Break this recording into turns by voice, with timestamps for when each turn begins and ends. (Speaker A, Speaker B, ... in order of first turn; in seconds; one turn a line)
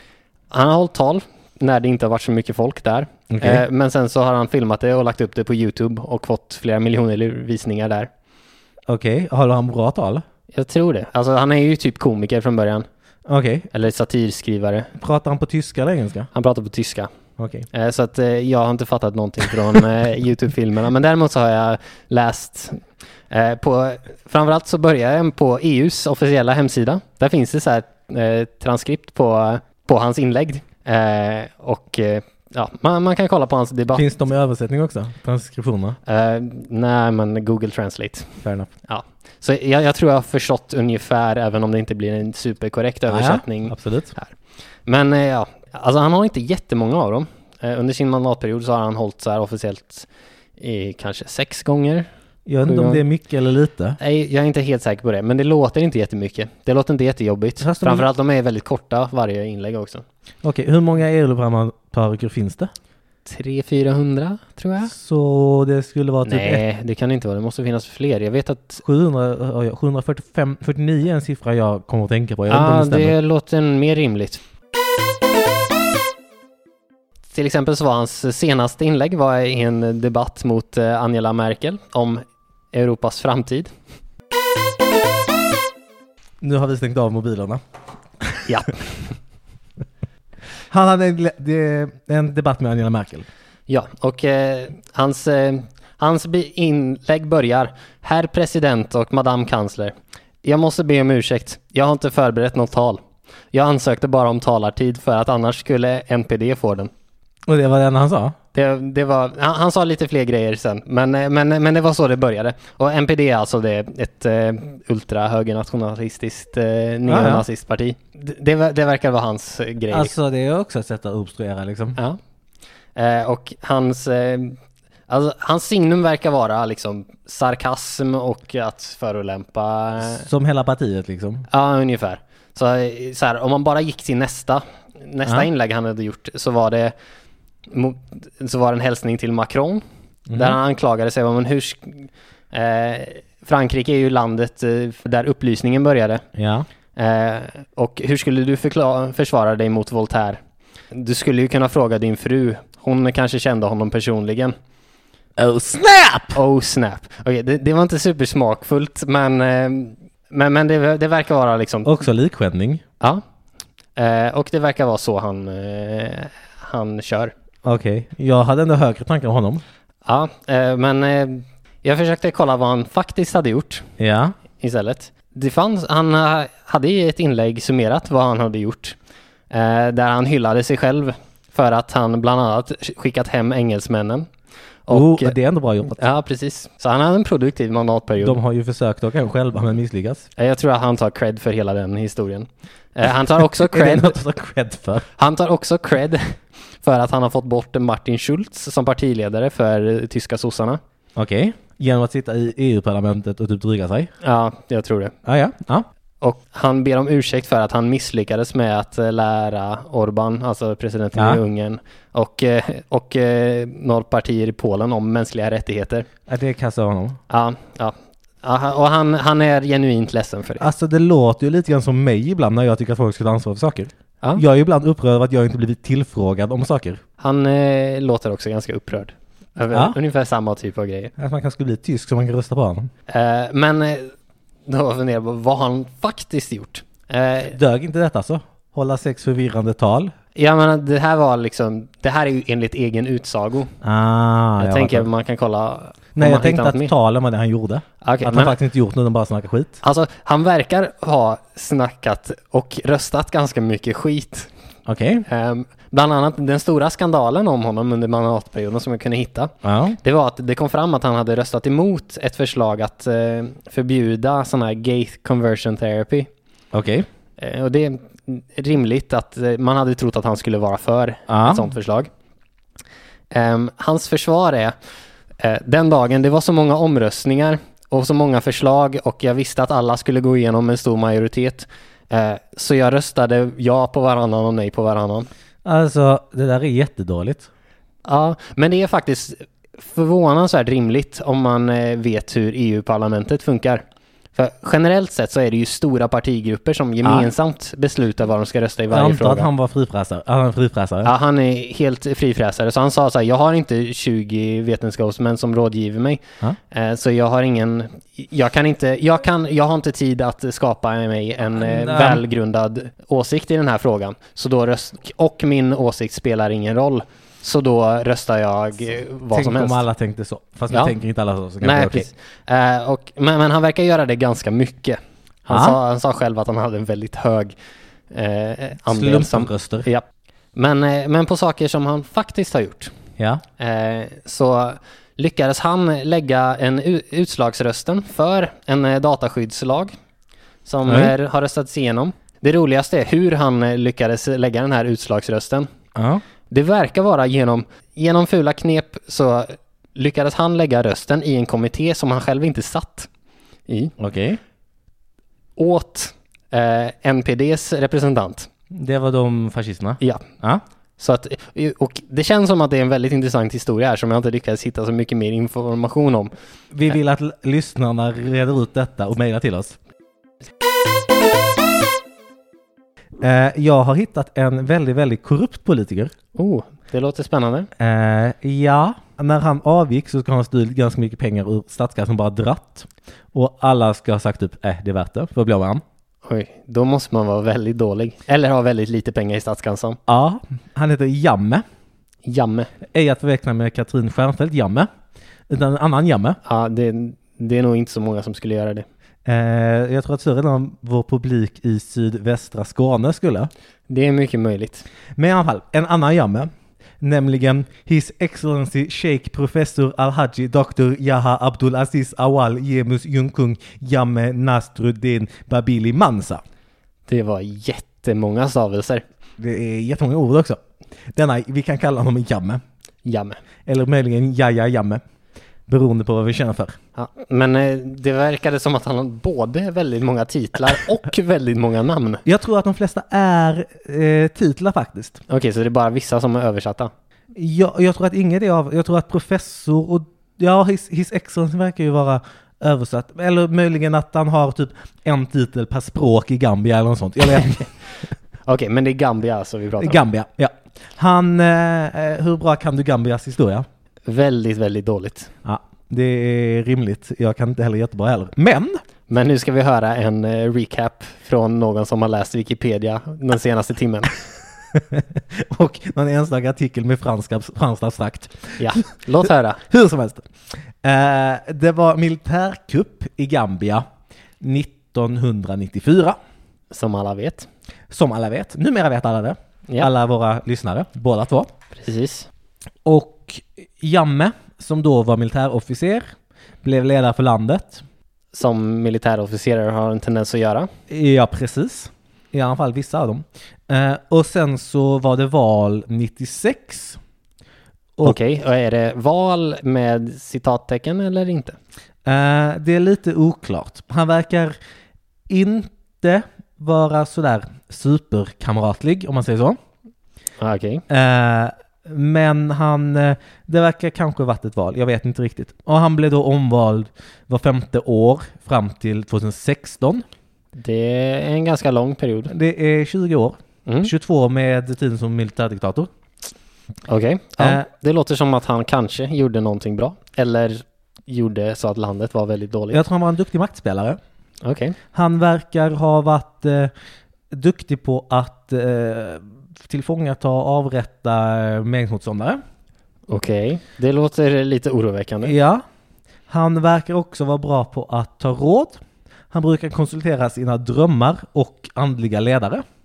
Speaker A: 0.5-8.1
Speaker B: 3.3-3.6
Speaker B: 8.9-10.2
Speaker A: 10.5-12.9
Speaker B: 13.3-13.7
Speaker A: 13.7-14.9
Speaker B: 15.0-16.3
Speaker A: 16.3-17.1
Speaker B: 17.4-17.7
Speaker A: 17.7-34.1
Speaker B: 34.0-36.0
Speaker A: 36.0-44.3
Speaker B: 38.4-38.7
Speaker B: 43.1-44.1
Speaker A: 44.9-52.1
Speaker B: 52.5-54.0
Speaker A: 52.6-53.0
Speaker A: 54.0-60.1
Speaker B: 57.6-58.1
Speaker B: 60.4-62.7
Speaker A: 63.3-64.9
Speaker B: 64.9-66.6
Speaker A: 66.2-68.8
Speaker B: 68.8-73.2
Speaker A: 72.5-74.4
Speaker A: 77.3-83.7
Speaker B: 86.4-87.6
Speaker B: 88.2-88.5
Speaker A: 88.5-89.1
Speaker B: 90.7-93.3
Speaker A: 93.7-103.0
Speaker A: 103.5-106.9
Speaker B: 107.5-108.4
Speaker A: 108.5-120.1
Speaker B: 117.1-117.5
Speaker B: 119.9-122.0
Speaker A: 123.0-124.6
Speaker A: 125.1-130.3
Speaker B: 130.0-131.5
Speaker A: 131.5-136.9
Speaker A: 137.7-139.8
Speaker B: 140.3-140.6
Speaker A: 140.3-146.2
Speaker B: 146.4-146.7
Speaker A: 146.9-150.4
Speaker A: 150.9-154.5
Speaker B: 155.4-156.4
Speaker A: 156.3-162.0
Speaker B: 161.8-162.8
Speaker A: 164.0-167.3
Speaker B: 167.7-169.6
Speaker A: 170.1-173.9
Speaker B: 174.0-174.3
Speaker A: 174.6-179.0
Speaker A: 179.5-184.3
Speaker A: 184.9-185.4
Speaker B: 184.9-186.0
Speaker A: 186.0-188.4
Speaker B: 188.2-190.2
Speaker A: 190.4-194.2
Speaker B: 193.6-195.1
Speaker A: 195.2-200.8
Speaker B: 201.2-204.1
Speaker A: 204.2-205.2
Speaker B: 205.2-205.9
Speaker A: 206.2-216.1
Speaker B: 211.2-211.4
Speaker B: 216.3-217.2
Speaker A: 217.3-220.7
Speaker B: 220.6-227.0
Speaker A: 227.2-231.1
Speaker B: 231.2-232.9
Speaker A: 233.1-234.1
Speaker A: 234.7-237.6
Speaker B: 237.5-240.1
Speaker A: 240.3-243.7
Speaker B: 243.8-245.1
Speaker A: 244.6-246.9
Speaker B: 246.2-249.8
Speaker A: 248.0-248.6
Speaker A: 249.8-254.5
Speaker B: 254.9-255.3
Speaker A: 255.3-266.3
Speaker B: 259.6-260.0
Speaker B: 266.7-267.1
Speaker A: 267.4-272.1
Speaker B: 271.3-271.7
Speaker A: 273.3-274.8
Speaker A: 275.4-285.3
Speaker B: 285.6-287.5
Speaker A: 288.1-293.8
Speaker A: 294.4-299.5
Speaker B: 297.0-297.3
Speaker B: 298.9-301.1
Speaker A: 301.0-319.9
Speaker B: 311.6-312.2
Speaker B: 319.3-322.1
Speaker A: 321.6-327.6
Speaker B: 325.5-325.8
Speaker A: 328.1-332.9
Speaker B: 328.9-329.9
Speaker B: 333.2-333.4
Speaker A: 333.6-339.9
Speaker A: 340.6-345.7
Speaker B: 340.9-341.1
Speaker B: 346.0-346.2
Speaker A: 346.5-353.1
Speaker A: 353.7-353.9
Speaker B: 354.0-354.4
Speaker A: 355.6-358.5
Speaker B: 358.7-360.6
Speaker A: 360.0-360.3
Speaker A: 361.0-366.3
Speaker B: 366.7-369.8
Speaker B: 373.2-376.1
Speaker A: 376.4-377.7
Speaker B: 377.8-385.8
Speaker A: 386.2-390.0
Speaker B: 390.1-391.6
Speaker A: 392.2-392.7
Speaker B: 392.9-394.9
Speaker B: 395.5-396.4
Speaker A: 396.4-398.9
Speaker B: 399.3-403.5
Speaker A: 403.9-404.9
Speaker B: 405.2-406.5
Speaker B: 407.0-416.4
Speaker A: 417.1-419.0
Speaker B: 419.4-420.6
Speaker B: 421.1-422.6
Speaker A: 423.1-423.4
Speaker B: 423.7-425.0
Speaker B: 425.7-426.8
Speaker A: 426.9-432.2
Speaker B: 432.3-435.2
Speaker A: 435.3-436.9
Speaker B: 437.4-447.8
Speaker A: 448.5-450.0
Speaker B: 449.8-453.7
Speaker A: 454.1-455.3
Speaker B: 455.4-458.8
Speaker A: 459.1-464.2
Speaker B: 464.7-470.3
Speaker A: 468.6-469.6
Speaker B: 470.8-473.9
Speaker B: 474.4-476.2
Speaker A: 476.7-477.5
Speaker B: 477.9-481.5
Speaker A: 481.8-482.3
Speaker B: 482.9-486.1
Speaker B: 486.6-487.8
Speaker A: 488.3-490.7
Speaker B: 490.9-497.0
Speaker A: 498.0-501.6
Speaker B: 502.1-504.6
Speaker B: 505.3-509.6
Speaker A: 510.4-510.8
Speaker B: 510.9-520.0
Speaker A: 520.6-522.3
Speaker B: 522.3-525.9
Speaker A: 523.7-523.9
Speaker A: 526.9-532.8
Speaker B: 527.4-527.7
Speaker B: 532.7-534.0
Speaker A: 534.4-534.8
Speaker B: 534.9-536.7
Speaker B: 537.3-542.4
Speaker A: 543.1-545.4
Speaker B: 545.2-545.6
Speaker B: 546.3-548.8
Speaker B: 549.3-552.6